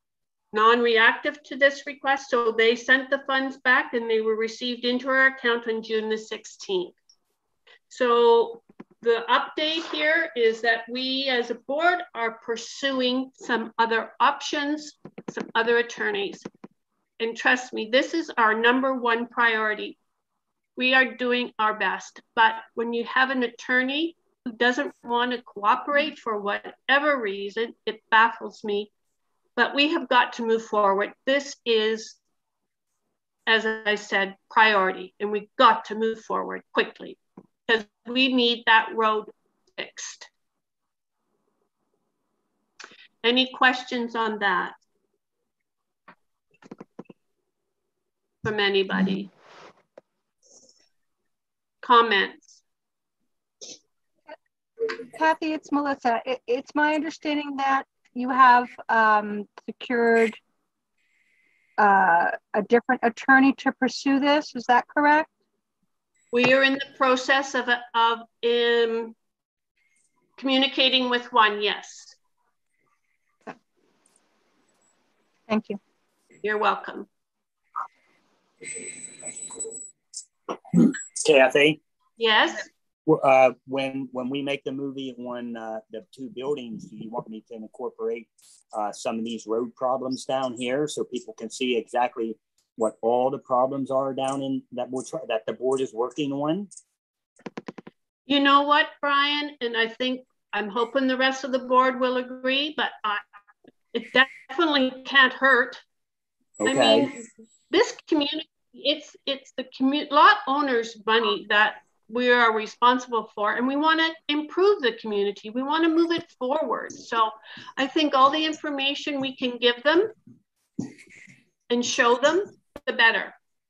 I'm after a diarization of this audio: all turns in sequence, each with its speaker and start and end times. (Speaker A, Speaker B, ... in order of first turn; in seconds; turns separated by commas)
Speaker A: 0.5-6.9, Speaker A: 7.9-16.5, Speaker A: 17.2-20.0, Speaker A: 20.8-28.9, Speaker A: 29.6-32.2, Speaker A: 33.5-40.3, Speaker A: 43.2-44.8, Speaker A: 48.4-49.3, Speaker A: 51.8-52.6, Speaker B: 55.1-60.4, Speaker B: 61.8-65.3, Speaker A: 66.3-69.2, Speaker A: 70.4-72.2, Speaker B: 75.5-75.8, Speaker A: 76.4-77.1, Speaker C: 80.7-81.8, Speaker A: 82.2-82.7, Speaker C: 83.1-96.7, Speaker A: 98.3-103.2, Speaker A: 103.9-105.8, Speaker C: 106.6-107.1, Speaker A: 106.7-120.1, Speaker A: 121.7-123.4